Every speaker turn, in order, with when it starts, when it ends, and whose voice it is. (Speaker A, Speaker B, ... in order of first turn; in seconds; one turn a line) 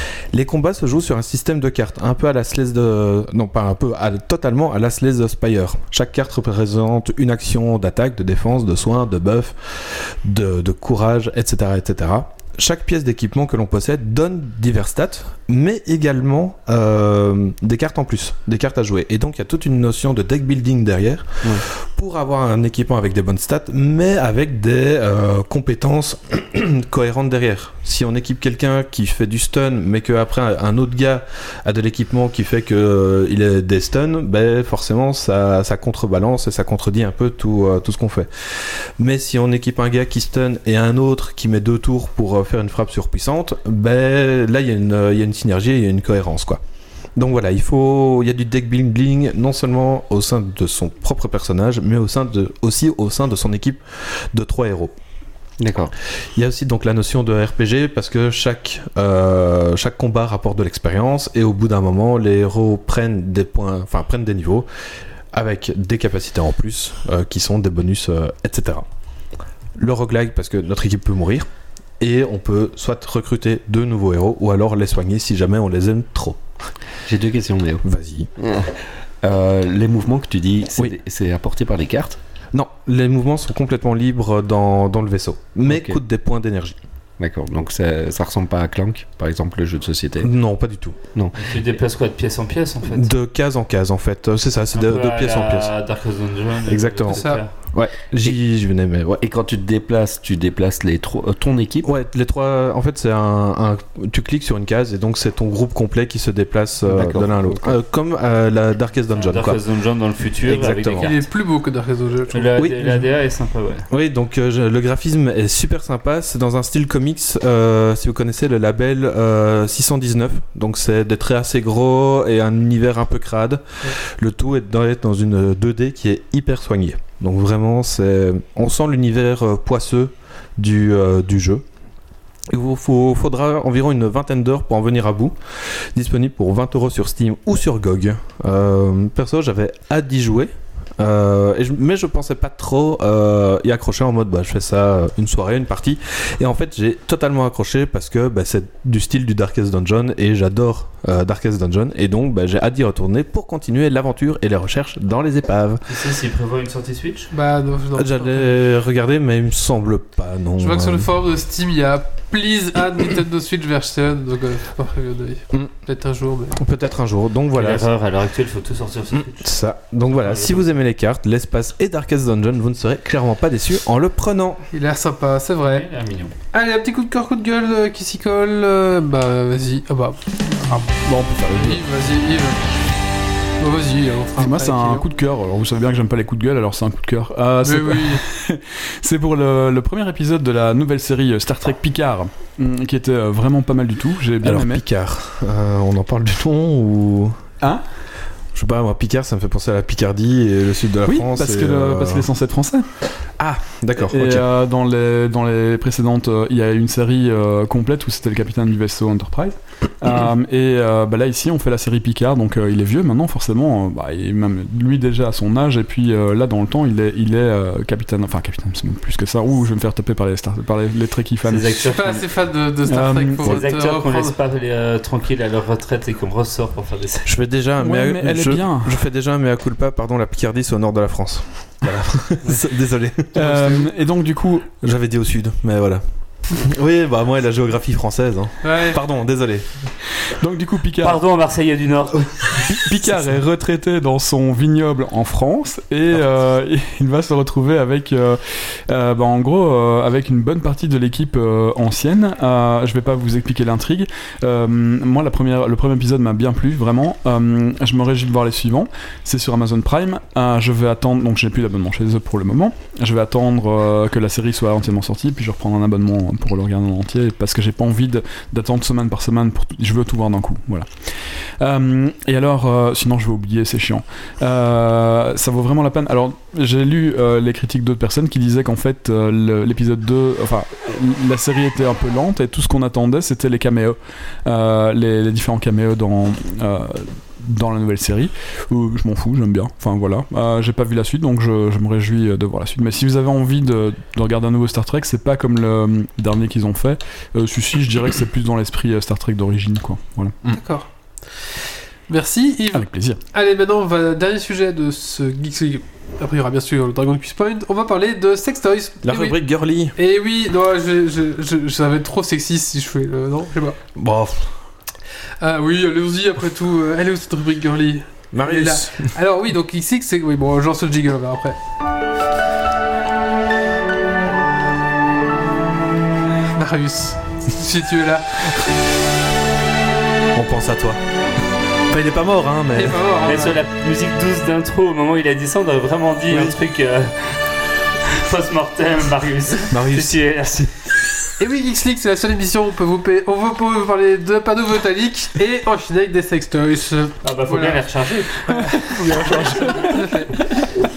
Speaker A: 0.3-46.6
Speaker A: 47.1-54.9
Speaker B: 55.6-55.9
Speaker A: 56.3-64.7
Speaker A: 65.3-68.8
Speaker A: 69.8-71.5
Speaker A: 72.0-76.4
Speaker B: 77.0-77.8
Speaker A: 77.8-78.3
Speaker B: 78.4-82.2
Speaker A: 82.5-86.8
Speaker B: 85.7-86.0
Speaker B: 87.2-90.3
Speaker A: 90.2-91.0
Speaker B: 91.1-91.5
Speaker C: 91.3-93.1
Speaker A: 92.9-95.7
Speaker C: 94.7-97.5
Speaker A: 96.7-99.2
Speaker D: 97.1-97.4
Speaker B: 99.2-101.9
Speaker A: 101.8-109.6
Speaker B: 106.8-107.8
Speaker C: 109.2-111.2
Speaker A: 110.4-111.1
Speaker D: 111.0-112.6
Speaker C: 112.3-113.8
Speaker A: 112.6-113.0
Speaker A: 113.9-131.6
Speaker A: 132.5-155.8
Speaker C: 155.9-157.3
Speaker D: 157.3-158.5
Speaker A: 157.9-161.1
Speaker D: 160.6-166.6
Speaker A: 166.6-167.9
Speaker C: 167.5-169.5
Speaker A: 169.1-174.6
Speaker C: 170.1-170.7
Speaker D: 174.7-175.8
Speaker C: 175.7-176.3
Speaker D: 176.5-180.9
Speaker E: 181.0-181.8
Speaker D: 181.5-182.6
Speaker D: 183.6-185.0
Speaker E: 184.4-194.8
Speaker D: 187.6-188.2
Speaker A: 194.4-197.5
Speaker A: 198.5-202.3
Speaker E: 201.1-202.8
Speaker A: 203.4-204.4
Speaker E: 204.0-221.9
Speaker C: 221.5-222.2
Speaker D: 221.9-224.3
Speaker E: 222.9-223.4
Speaker C: 223.4-227.3
Speaker A: 227.2-233.4
Speaker E: 227.8-228.9
Speaker E: 233.3-234.7
Speaker D: 233.4-233.9
Speaker A: 234.8-239.9
Speaker D: 238.6-239.0
Speaker E: 240.3-241.2
Speaker C: 241.0-242.6
Speaker E: 242.6-300.3
Speaker D: 300.5-300.9
Speaker D: 302.1-309.4
Speaker E: 302.7-303.2
Speaker A: 309.0-309.9
Speaker D: 309.9-313.8
Speaker A: 313.9-314.5
Speaker D: 315.4-321.6
Speaker A: 318.3-319.1
Speaker D: 326.5-328.4
Speaker A: 330.3-331.0
Speaker A: 331.9-333.0
Speaker D: 332.7-333.6
Speaker C: 333.2-340.9
Speaker A: 336.3-336.6
Speaker A: 339.7-340.2
Speaker D: 341.4-347.8
Speaker C: 347.2-348.6
Speaker D: 348.4-350.3
Speaker E: 348.7-350.6